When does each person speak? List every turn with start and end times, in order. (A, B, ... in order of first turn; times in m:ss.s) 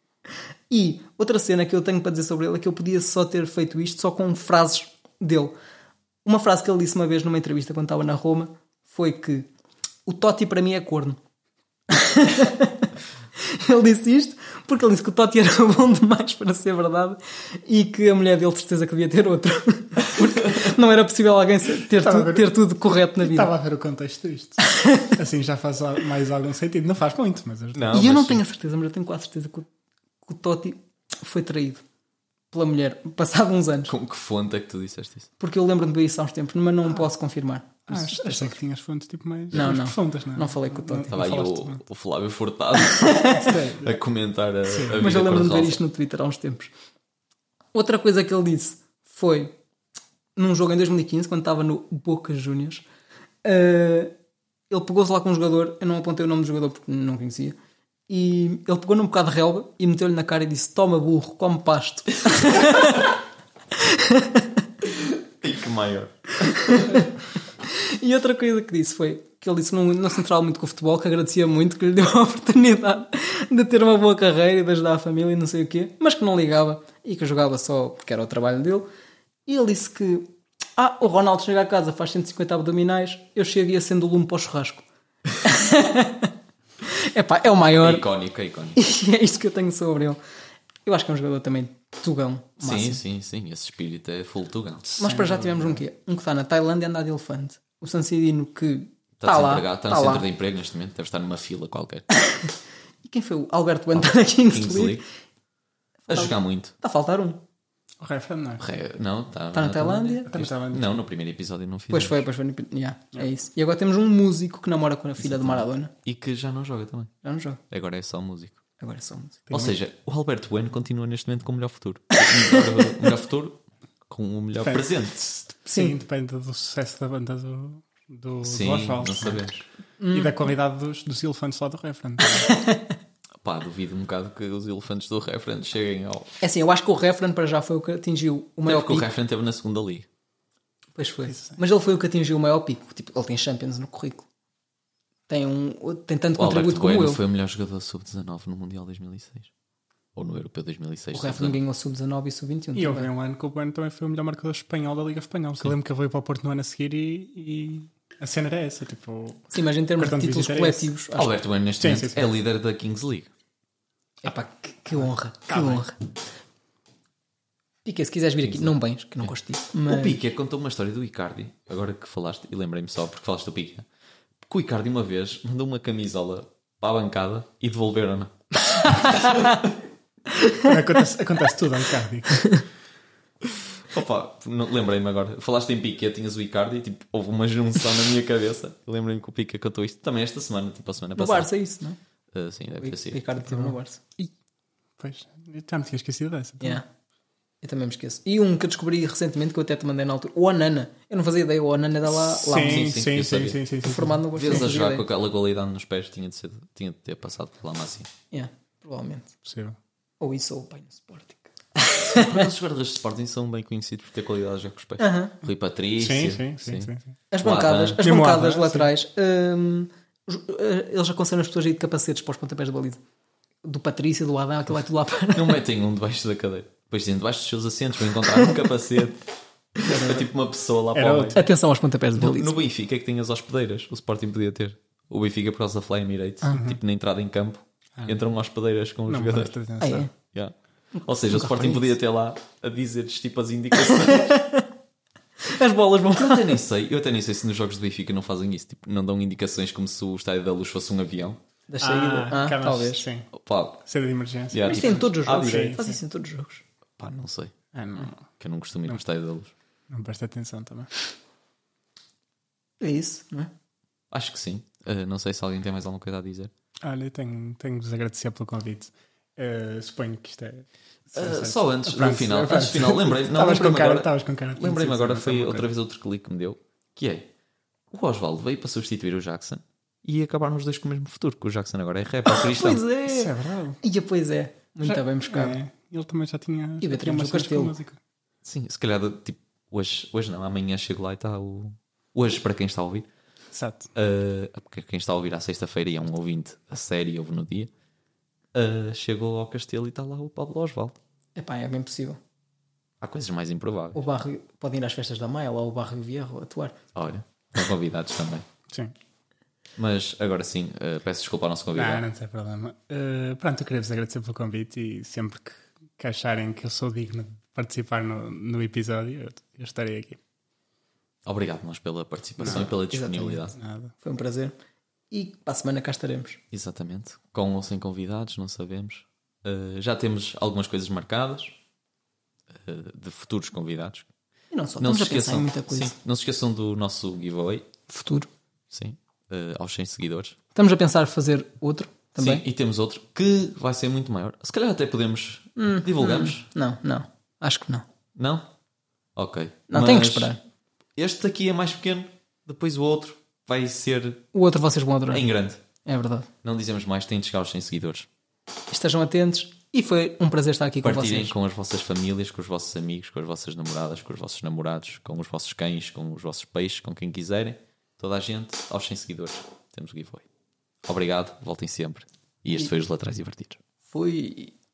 0:00.7-0:05.5 A
0:06.2-0:09.5 A
0:10.0-0:11.2 A
0:11.9-0:23.5 A
0:21.9-0:22.6 B
0:23.2-0:28.0 B
0:24.7-0:25.1 A
0:27.7-0:28.4 C
0:27.9-0:29.7 A
0:30.2-0:31.8 A
0:32.5-0:33.9 A
0:33.9-0:35.3 C
0:35.4-0:38.6 A
0:37.9-0:41.8 B
0:39.5-0:41.2 A
0:41.1-0:45.8 C
0:42.8-0:43.5 A
0:43.3-0:44.0 B
0:44.7-0:45.0 B
0:44.9-0:46.7 A
0:47.7-0:49.5 A
0:50.4-0:52.8 A
0:53.4-0:54.1 A
0:54.7-0:57.6 A
0:58.1-1:03.1 A
1:03.7-1:04.6 A
1:04.8-1:07.1 C
1:06.5-1:07.1 A
1:07.6-1:18.9 A
1:19.4-1:24.8 A
1:25.4-1:28.0 A
1:27.8-1:28.8 C
1:28.7-1:30.2 A
1:30.8-1:33.0 A
1:32.6-1:34.9 C
1:34.8-1:35.8 B
1:35.0-1:40.2 A
1:39.2-1:42.0 C
1:42.2-1:42.5 A
1:43.0-1:45.0 A
1:43.9-1:45.0 C
1:46.1-1:46.7 C
1:46.1-1:47.4 A
1:48.0-1:48.6 B
1:48.6-1:52.2 C
1:49.5-1:50.3 A
1:50.3-1:51.0 B
1:51.9-1:55.9 A
1:55.2-1:57.1 C
1:57.2-1:57.6 A
1:57.7-1:58.6 C
1:58.8-1:59.4 A
1:59.5-1:59.7 B
1:59.5-2:05.2 C
2:04.6-2:12.5 B
2:08.4-2:09.6 C
2:10.0-2:10.4 A
2:12.4-2:12.9 A
2:13.4-2:16.3 C
2:16.4-2:19.1 A
2:18.6-2:20.1 C
2:21.0-2:24.2 A
2:21.3-2:21.6 B
2:25.3-2:27.2 A
2:26.4-2:29.5 C
2:30.1-2:31.6 C
2:31.1-2:33.1 A
2:32.7-2:40.9 B
2:39.5-2:41.4 A
2:41.1-2:43.3 C
2:41.8-2:42.4 B
2:44.2-2:46.0 A
2:45.0-2:45.8 B
2:47.8-2:50.2 A
2:48.4-2:49.3 C
2:49.9-2:53.8 C
2:54.4-2:59.7 C
2:59.1-2:59.4 A
3:00.4-3:00.7 A
3:00.6-3:02.6 B
3:03.8-3:11.5 C
3:11.2-3:12.0 A
3:12.3-3:13.2 C
3:12.8-3:14.0 A
3:13.5-3:14.3 B
3:15.0-3:16.8 B
3:17.6-3:23.0 A
3:22.2-3:24.7 B
3:22.6-3:23.6 C
3:23.8-3:25.0 A
3:24.3-3:28.1 C
3:28.3-3:29.3 A
3:29.4-3:29.8 B
3:30.2-3:32.5 A
3:32.0-3:38.0 C
3:35.0-3:35.3 A
3:36.0-3:37.1 B
3:37.3-3:43.0 A
3:38.0-3:38.9 B
3:43.6-3:45.6 A
3:45.3-3:51.5 C
3:49.8-3:50.3 B
3:50.9-3:51.5 B
3:51.3-3:52.5 A
3:52.2-3:59.5 C
3:56.5-3:56.8 B
3:59.1-4:00.1 B
3:59.8-4:00.1 A
4:00.3-4:04.3 C
4:00.9-4:01.9 A
4:03.8-4:04.7 A
4:05.4-4:06.6 A
4:06.1-4:11.4 C
4:11.7-4:13.1 A
4:11.8-4:13.3 B
4:13.3-4:13.8 C
4:13.8-4:16.0 B
4:14.5-4:15.7 C
4:14.6-4:16.6 A
4:17.0-4:19.5 C
4:17.7-4:18.3 B
4:19.9-4:20.9 B
4:22.8-4:23.5 A
4:24.1-4:26.5 C
4:26.8-4:35.7 B
4:31.1-4:37.3 C
4:37.9-4:42.8 C
4:42.3-4:45.6 A
4:43.1-4:43.8 B
4:44.8-4:48.0 B
4:46.8-4:47.7 A
4:48.4-4:53.1 C
4:53.5-4:53.9 B
4:53.9-4:57.7 C
4:58.5-5:01.0 C
5:01.4-5:02.2 A
5:03.0-5:04.0 C
5:03.9-5:06.8 A
5:06.9-5:08.4 C
5:09.8-5:12.0 C
5:11.7-5:20.2 B
5:21.2-5:23.5 C
5:22.4-5:22.7 B
5:22.4-5:24.5 A
5:23.5-5:23.9 B
5:25.1-5:26.4 A
5:26.5-5:31.6 C
5:32.5-5:34.1 C
5:34.5-5:35.9 A
5:34.8-5:37.7 C
5:37.9-5:38.3 A
5:38.7-5:40.4 C
5:40.5-5:42.4 A
5:42.2-5:46.4 C
5:45.6-5:47.8 A
5:48.1-5:48.5 C
5:49.2-5:50.3 C
5:49.7-5:50.4 A
5:51.0-5:54.2 C
5:54.3-5:55.2 A
5:55.1-5:55.6 C
5:55.8-5:56.3 A
5:56.4-5:58.1 C
5:58.7-6:01.3 A
6:00.8-6:10.2 C
6:10.8-6:13.6 C
6:13.9-6:14.5 A